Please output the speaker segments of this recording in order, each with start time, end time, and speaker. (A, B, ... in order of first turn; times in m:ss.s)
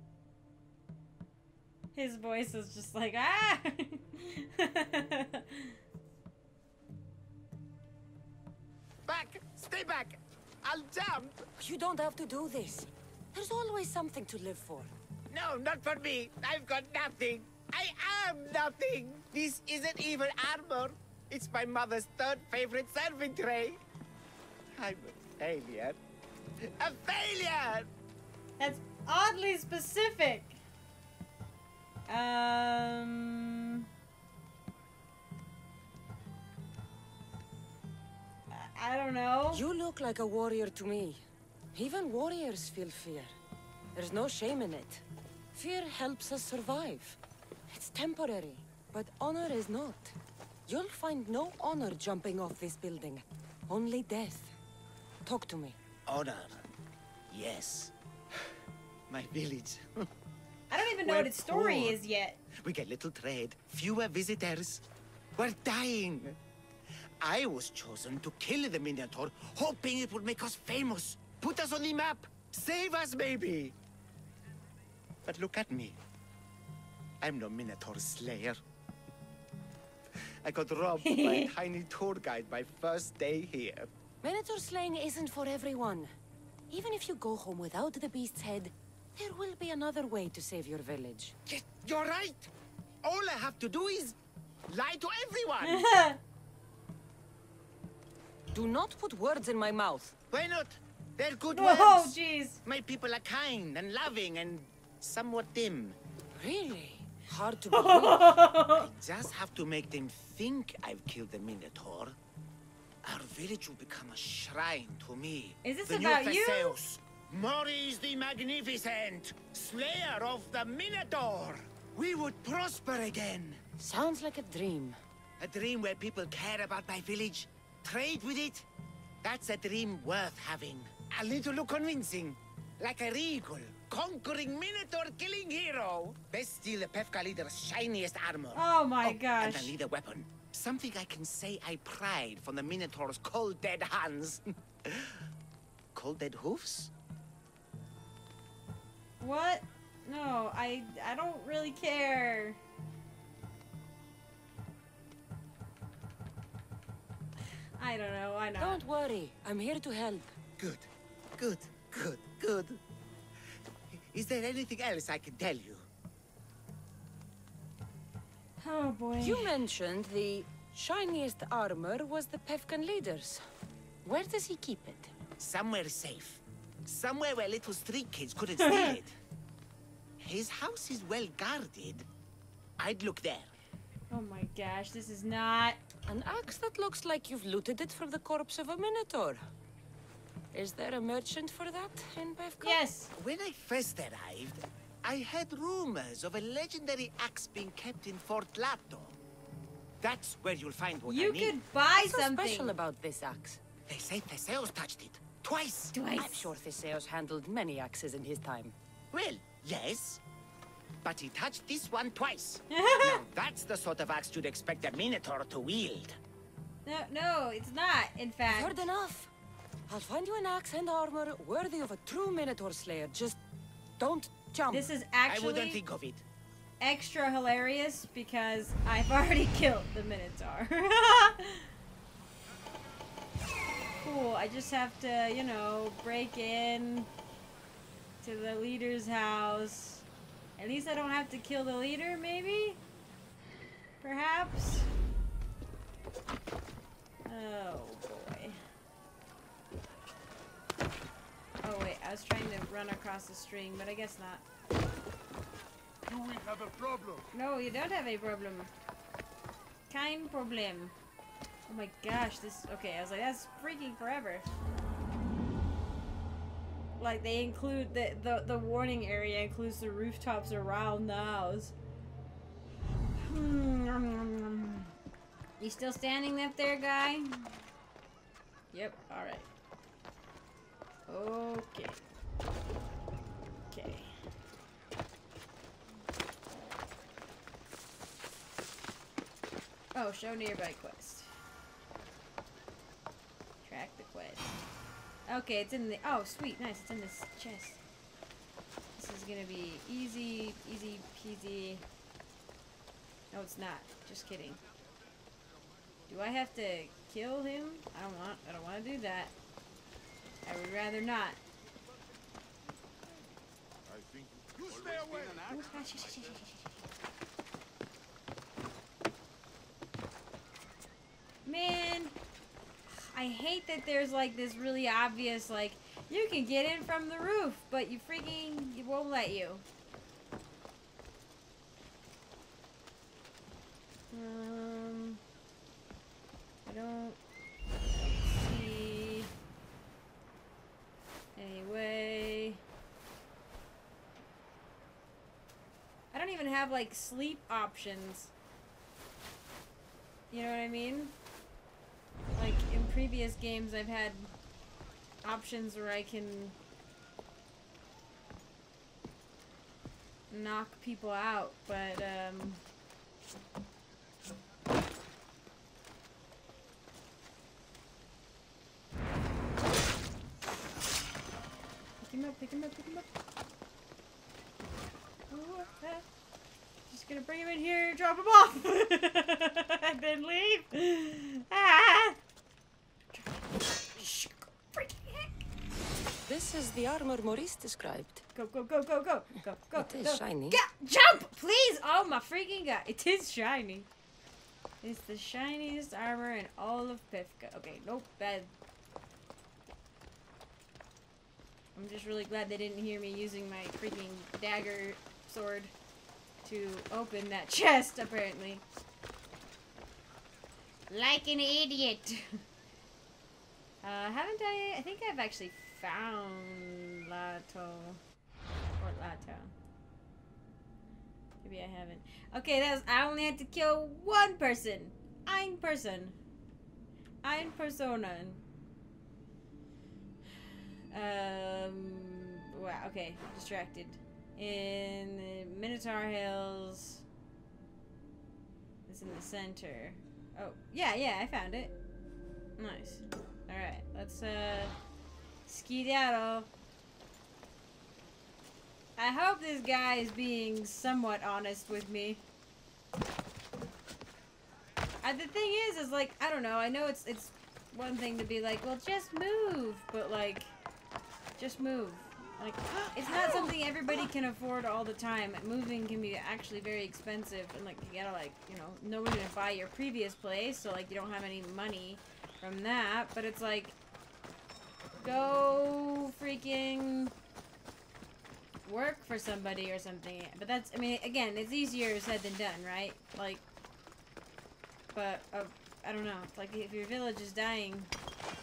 0:01.9-0:05.8 A
0:09.0-0:11.4 B
0:11.6-0:14.9 C
0:15.3-0:23.8 B
0:24.8-0:26.0 B
0:26.6-0:27.9 B
0:28.6-0:30.6 A
0:32.1-0:33.8 A
0:38.5-0:39.6 A
0:39.5-0:41.2 C
0:41.7-0:43.3 C
0:43.9-0:50.2 C
0:50.7-0:54.5 C
0:55.2-0:55.7 C
0:56.1-0:56.7 B
0:57.3-0:58.4 B
0:59.1-1:00.1 B
1:00.7-1:02.4 A
1:00.8-1:02.0 B
1:02.5-1:04.8 B
1:05.4-1:06.4 B
1:07.2-1:13.7 B
1:15.2-1:16.0 B
1:17.2-1:18.6 B
1:20.4-1:23.9 B
1:21.0-1:21.5 A
1:24.2-1:26.1 C
1:26.7-1:31.3 C
1:31.4-1:32.5 B
1:33.0-1:34.2 B
1:34.7-1:35.9 B
1:35.6-1:36.2 A
1:38.5-1:40.1 C
1:40.3-1:46.0 B
1:41.5-1:42.6 A
1:46.3-1:48.4 C
1:47.7-1:48.9 A
1:48.7-1:52.2 B
1:53.0-2:03.6 B
1:55.6-1:56.8 A
2:03.8-2:05.0 C
2:05.4-2:08.7 B
2:09.2-2:25.2 B
2:18.5-2:19.7 A
2:25.9-2:26.9 B
2:29.2-2:32.6 A
2:37.8-2:38.8 A
2:38.6-2:40.3 C
2:40.6-2:42.8 B
2:43.9-2:45.9 B
2:48.6-2:49.6 A
2:49.2-2:53.4 C
2:54.0-2:55.1 C
2:55.4-2:59.2 B
2:58.6-2:59.0 A
3:00.2-3:02.1 B
3:02.8-3:03.5 B
3:04.1-3:05.8 A
3:06.1-3:09.4 C
3:10.5-3:12.8 C
3:12.6-3:13.1 A
3:13.2-3:19.2 B
3:20.0-3:21.6 B
3:21.0-3:22.7 A
3:22.0-3:23.6 C
3:23.9-3:25.9 B
3:25.9-3:26.5 A
3:26.2-3:28.7 C
3:29.1-3:30.2 B
3:31.0-3:36.2 B
3:32.7-3:33.2 A
3:36.8-3:38.9 A
3:38.5-3:39.3 C
3:39.9-3:43.4 C
3:44.0-3:44.9 C
3:44.7-3:45.8 A
3:45.3-3:46.2 B
3:46.8-3:51.7 A
3:54.0-3:57.1 A
3:58.2-4:00.0 A
4:00.6-4:02.8 A
4:04.0-4:04.9 A
4:07.2-4:08.6 A
4:11.6-4:14.4 A
4:16.0-4:17.2 D
4:17.3-4:18.7 A
4:19.9-4:20.9 A
4:21.7-4:24.4 A
4:27.0-4:31.7 A
4:33.2-4:34.9 A
4:35.6-4:37.5 A
4:38.7-4:39.5 A
4:41.1-4:42.0 A
4:43.7-4:44.1 A
4:49.9-4:51.3 A
4:53.6-4:54.5 A
4:55.3-4:57.8 A
4:59.0-5:01.8 A
5:03.3-5:04.6 A
5:06.1-5:09.3 A
5:10.4-5:11.4 A
5:13.9-5:16.1 D
5:15.4-5:16.8 A
5:21.4-5:22.1 A
5:22.9-5:29.6 A
5:34.1-5:35.2 A
5:36.6-5:37.2 A
5:37.9-5:39.3 A
5:41.4-5:42.6 A
5:46.1-5:48.3 A
5:50.3-5:51.1 A
5:52.4-5:54.3 A
5:55.2-5:56.6 A
6:00.3-6:02.6 A
6:12.0-6:13.1 A
6:15.3-6:16.0 A
6:16.9-6:22.2 A
6:23.1-6:25.4 A
6:26.2-6:28.2 C
6:28.3-6:33.9 A
6:29.7-6:30.6 C
6:34.8-6:38.5 A
6:41.7-6:45.7 A
6:46.4-6:48.6 A
6:50.9-6:52.4 A
6:53.8-6:58.0 A
6:58.8-6:59.5 A
7:01.4-7:06.2 A
7:07.2-7:08.4 A
7:10.9-7:17.0 A
7:18.9-7:21.7 A
7:22.6-7:24.7 A
7:25.5-7:26.5 A
7:29.0-7:32.2 A
7:35.0-7:40.5 A
7:41.4-7:53.8 A
7:55.0-7:57.1 A
7:58.6-8:03.4 A
8:04.9-8:07.9 A